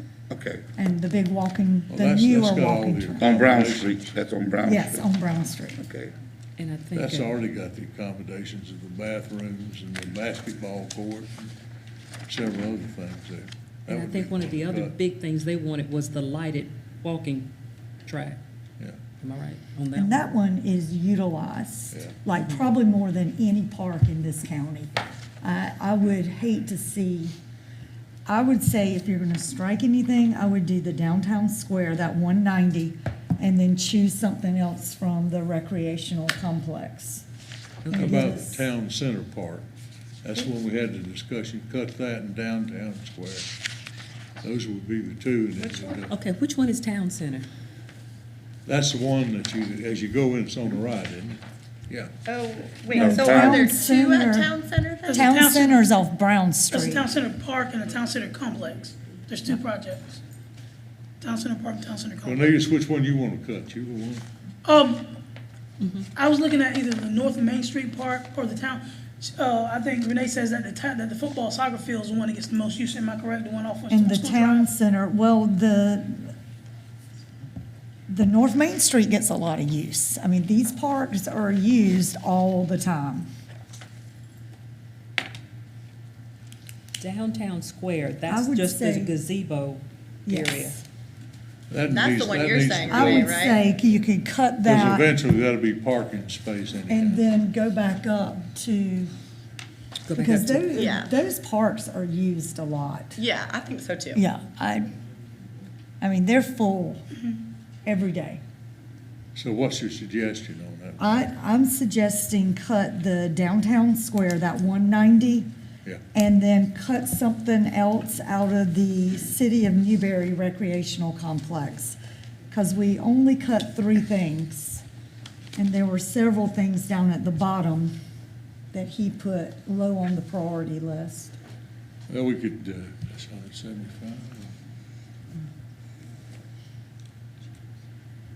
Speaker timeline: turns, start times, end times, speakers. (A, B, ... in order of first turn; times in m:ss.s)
0:00.3-0:00.6 A
0:00.8-0:03.3 B
0:01.9-0:04.2 C
0:03.2-0:05.1 A
0:04.6-0:05.8 B
0:05.8-0:06.1 A
0:06.6-0:07.4 D
0:06.9-0:11.5 C
0:12.3-0:14.9 C
0:13.9-0:17.5 D
0:18.0-0:18.4 D
0:19.2-0:20.3 D
0:19.9-0:27.4 B
0:28.2-0:37.2 B
0:37.8-0:38.4 D
0:37.9-0:39.6 C
0:37.9-0:38.5 B
0:40.2-0:43.5 C
0:44.4-0:46.1 C
0:45.6-0:47.4 D
0:48.6-0:52.1 C
0:52.2-0:55.4 E
0:52.9-0:54.6 B
0:53.0-0:53.6 A
0:55.0-0:55.8 F
0:55.2-0:57.1 B
0:56.7-1:00.2 F
1:01.2-1:02.6 F
1:02.2-1:04.2 C
1:04.6-1:05.1 F
1:05.8-1:06.0 D
1:06.2-1:14.7 F
1:13.9-1:16.3 B
1:18.1-1:23.3 B
1:27.0-1:30.8 D
1:28.3-1:29.2 B
1:30.2-1:30.8 B
1:31.7-1:33.4 C
1:31.8-1:33.6 E
1:32.8-1:35.1 B
1:34.6-1:37.2 C
1:36.9-1:39.1 B
1:40.0-1:40.8 D
1:40.1-1:43.2 B
1:40.7-1:41.1 E
1:43.2-1:44.2 E
1:44.1-1:44.9 B
1:46.0-1:47.1 B
1:47.8-1:48.4 B
1:49.3-1:51.3 C
1:51.0-1:55.5 B
1:56.1-2:02.0 B
2:02.5-2:04.8 B
2:05.5-2:07.9 B
2:08.7-2:11.3 B
2:12.1-2:14.5 C